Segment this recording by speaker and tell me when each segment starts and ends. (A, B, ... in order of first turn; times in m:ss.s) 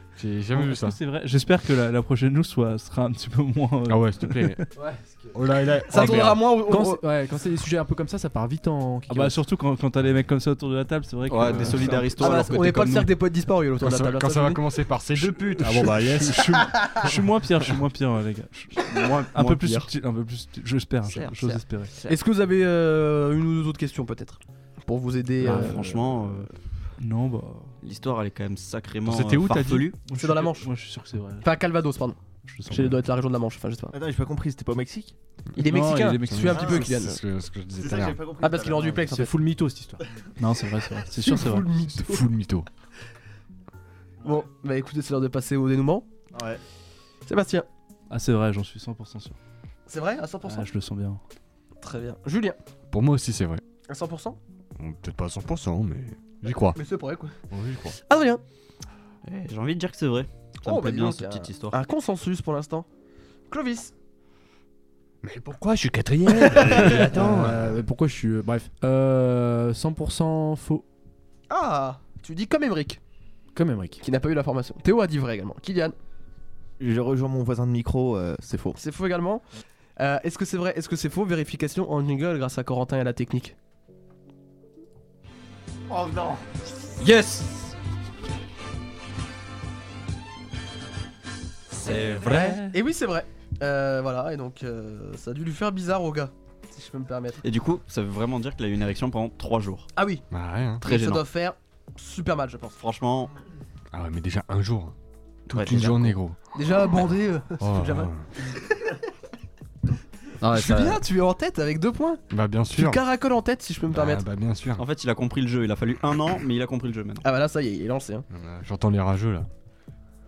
0:00.2-0:01.0 A
0:00.5-0:04.6 B
0:03.9-0:04.8 A
0:04.9-0:05.2 C
0:05.3-0:06.5 A
0:05.9-0:07.0 D
0:06.1-0:09.4 C
0:09.1-0:13.1 B
0:11.3-0:13.1 E
0:11.4-0:12.0 A
0:12.2-0:14.6 D
0:13.8-0:17.2 A
0:15.2-0:21.9 B
0:18.9-0:19.9 E
0:21.0-0:22.2 E
0:22.0-0:26.1 D
0:25.4-0:26.9 E
0:27.0-0:27.8 B
0:27.8-0:30.0 E
0:29.0-0:29.9 A
0:30.0-0:31.5 B
0:30.1-0:30.7 D
0:31.4-0:33.9 D
0:32.4-0:33.0 B
0:33.9-0:35.1 F
0:35.6-0:37.2 D
0:35.6-0:36.8 B
0:36.3-0:38.2 A
0:36.6-0:36.9 F
0:37.8-0:39.0 F
0:38.4-0:39.3 D
0:39.0-0:40.0 C
0:40.4-0:41.7 B
0:41.2-0:42.2 D
0:41.9-0:42.7 A
0:44.2-0:46.1 D
0:46.3-0:46.6 F
0:47.3-0:47.7 D
0:48.1-0:49.4 B
0:49.9-0:50.7 D
0:50.4-0:51.2 B
0:51.8-0:52.6 D
0:52.9-0:53.6 A
0:53.9-0:54.4 D
0:54.8-0:56.8 A
0:56.8-0:57.4 D
0:57.5-0:58.0 A
0:58.0-0:58.4 D
0:59.2-1:01.8 E
1:00.6-1:02.9 D
1:03.5-1:03.9 D
1:05.2-1:07.7 A
1:06.4-1:07.2 D
1:06.5-1:10.8 C
1:11.5-1:13.0 D
1:13.5-1:14.0 C
1:14.0-1:16.0 D
1:16.8-1:18.8 F
1:18.8-1:19.4 D
1:20.0-1:23.6 D
1:27.0-1:27.7 E
1:31.7-1:32.7 E
1:32.2-1:37.4 D
1:32.3-1:32.7 B
1:37.4-1:39.9 E
1:40.0-1:40.2 D
1:40.3-1:40.8 A
1:40.8-1:42.8 D
1:40.8-1:41.2 E
1:42.8-1:43.3 E
1:43.9-1:45.0 A
1:45.5-1:46.4 A
1:45.5-1:46.2 E
1:46.6-1:48.6 D
1:47.6-1:48.3 A
1:50.4-1:51.0 E
1:50.5-1:52.2 D
1:52.3-1:53.0 A
1:52.8-1:54.2 D
1:53.9-1:54.8 A
1:54.8-1:57.2 E
1:57.2-1:58.2 D
1:58.3-1:59.5 A